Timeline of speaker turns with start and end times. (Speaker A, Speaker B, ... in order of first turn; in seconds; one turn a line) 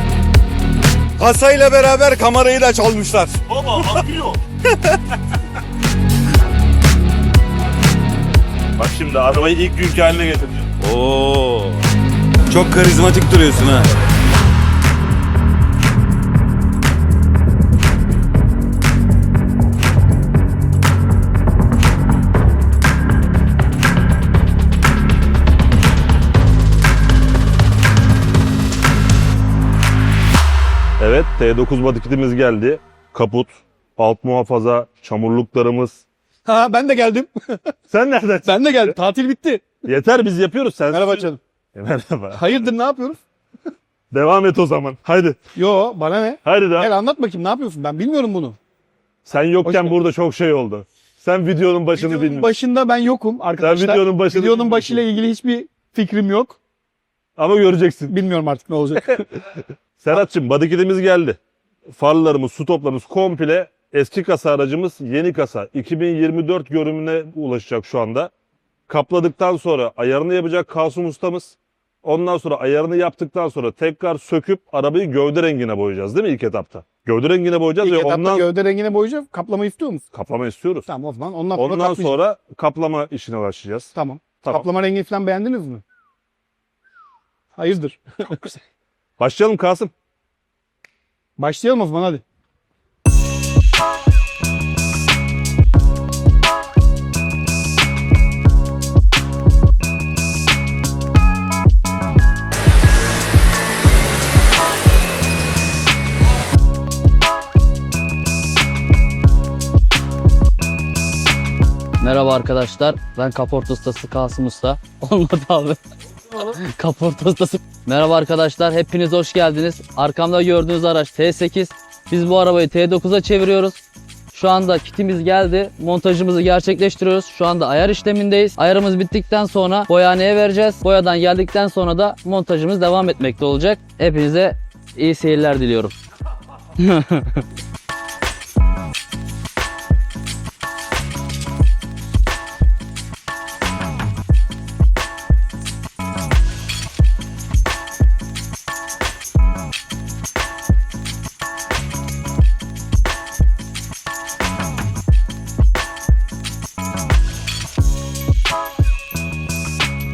Speaker A: 1.2-4.0
Speaker B: 3.5-4.4
Speaker B: 8.8-10.7
Speaker A: 10.8-11.8
Speaker A: 12.5-13.9
Speaker B: 31.0-36.0
Speaker C: 36.5-37.6
Speaker B: 37.9-38.8
Speaker C: 38.5-39.8
Speaker B: 39.8-42.5
Speaker C: 40.9-41.4
Speaker C: 42.4-43.2
Speaker B: 44.1-45.4
Speaker C: 45.5-48.6
Speaker B: 46.4-46.9
Speaker B: 49.2-52.5
Speaker C: 49.6-49.9
Speaker C: 51.9-56.6
Speaker B: 53.6-55.0
Speaker B: 57.4-58.1
Speaker C: 58.1-59.2
Speaker B: 60.0-61.4
Speaker B: 61.9-68.3
Speaker B: 68.9-78.5
Speaker C: 77.8-80.0
Speaker B: 80.1-80.9
Speaker C: 80.9-82.1
Speaker B: 81.6-83.9
Speaker C: 83.9-85.8
Speaker C: 87.6-88.6
Speaker B: 89.2-89.9
Speaker C: 91.4-92.2
Speaker D: 112.0-115.8
Speaker D: 116.3-123.8
Speaker D: 124.3-135.9
Speaker D: 136.8-137.4